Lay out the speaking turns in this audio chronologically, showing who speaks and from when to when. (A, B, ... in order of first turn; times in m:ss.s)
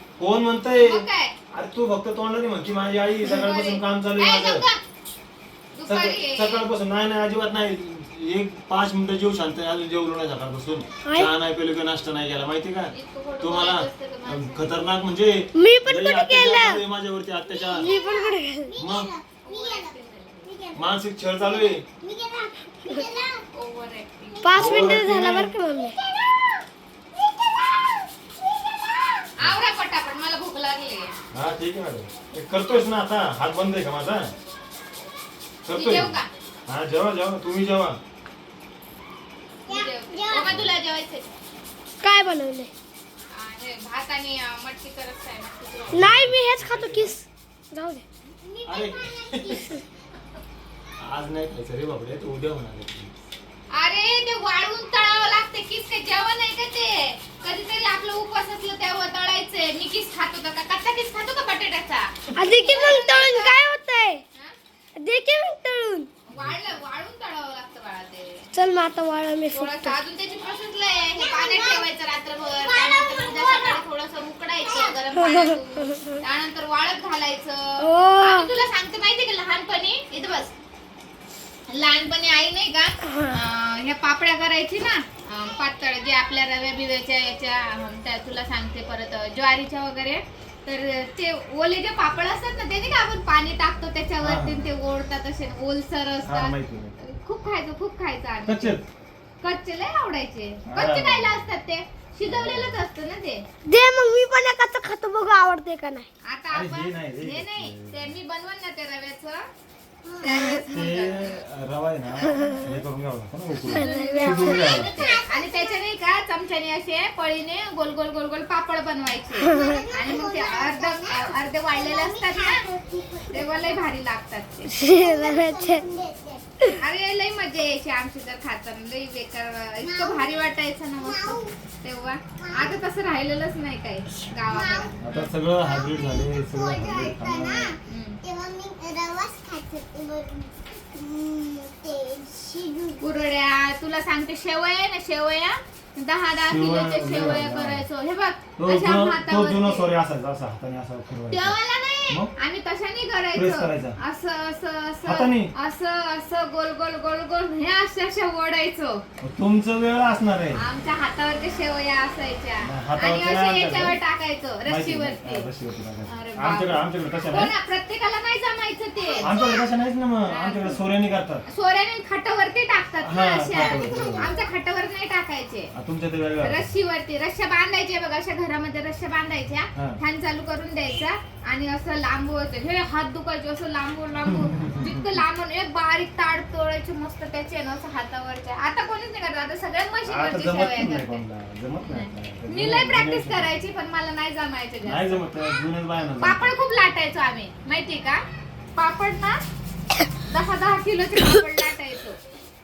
0:00.2-0:04.6 A
0:00.8-0:01.3 B
0:03.3-0:04.8 B
0:05.7-0:06.7 B
0:05.9-0:17.9 A
0:11.0-0:11.3 C
0:12.9-0:14.8 B
0:15.6-0:16.8 C
0:17.5-0:19.9 D
0:17.8-0:18.7 C
0:18.8-0:19.1 A
0:19.4-0:20.5 B
0:20.5-0:23.4 D
0:20.8-0:21.8 A
0:23.6-0:24.8 B
0:24.4-0:26.0 C
0:24.5-0:25.1 D
0:24.6-0:25.5 A
0:25.9-0:26.6 D
0:27.2-0:28.0 D
0:28.6-0:29.1 D
0:29.4-0:31.2 B
0:31.3-0:34.3 A
0:35.6-0:36.2 A
0:35.8-0:36.3 B
0:36.7-0:38.0 A
0:39.7-0:40.6 D
0:39.7-0:41.3 B
0:42.0-0:42.7 C
0:43.3-0:46.2 B
0:45.9-0:47.2 A
0:46.0-0:48.0 C
0:48.4-0:49.8 D
0:48.7-0:49.8 A
0:51.0-0:53.2 A
0:53.7-1:03.6 B
1:02.4-1:04.2 C
1:05.0-1:06.1 C
1:06.3-1:08.5 B
1:06.4-1:06.8 A
1:08.5-1:10.0 C
1:09.5-1:20.5 B
1:11.2-1:11.9 D
1:12.5-1:13.8 D
1:14.7-1:14.9 D
1:15.2-1:15.5 C
1:17.8-1:18.5 C
1:21.7-1:38.8 B
1:34.2-1:34.7 A
1:36.2-1:37.0 A
1:38.4-1:38.9 A
1:39.4-1:43.4 B
1:40.7-1:41.5 A
1:42.2-1:42.8 A
1:43.7-1:46.1 C
1:46.3-1:49.4 B
1:46.5-1:48.2 A
1:50.2-1:51.3 B
1:50.7-1:54.9 A
1:52.3-1:52.6 C
1:53.7-1:54.6 C
1:53.7-2:02.7 B
1:54.5-1:55.8 D
1:59.4-2:03.8 D
2:03.3-2:04.7 B
2:04.7-2:05.8 C
2:04.8-2:06.5 D
2:06.8-2:15.3 B
2:09.8-2:10.4 D
2:11.0-2:11.5 D
2:12.4-2:12.8 D
2:14.5-2:14.9 D
2:15.0-2:17.8 A
2:15.6-2:23.1 D
2:17.9-2:18.2 B
2:23.0-2:29.9 B
2:26.4-2:27.9 A
2:28.6-2:31.6 A
2:31.3-2:39.0 B
2:33.3-2:34.0 A
2:35.0-2:35.5 A
2:39.2-2:40.6 A
2:40.6-2:45.5 B
2:42.6-2:44.0 A
2:44.7-2:47.5 A
2:46.1-2:49.4 B
2:49.1-2:49.6 D
2:49.2-2:51.4 A
2:50.3-2:50.8 B
2:51.5-2:55.7 B
2:53.0-2:54.3 A
2:53.5-2:54.5 D
2:55.7-2:56.6 A
2:56.4-3:11.2 B
3:04.3-3:05.2 A
3:10.1-3:13.6 A
3:11.8-3:15.2 B
3:14.8-3:16.5 A
3:16.2-3:18.2 B
3:18.8-3:19.4 B
3:20.3-3:22.2 B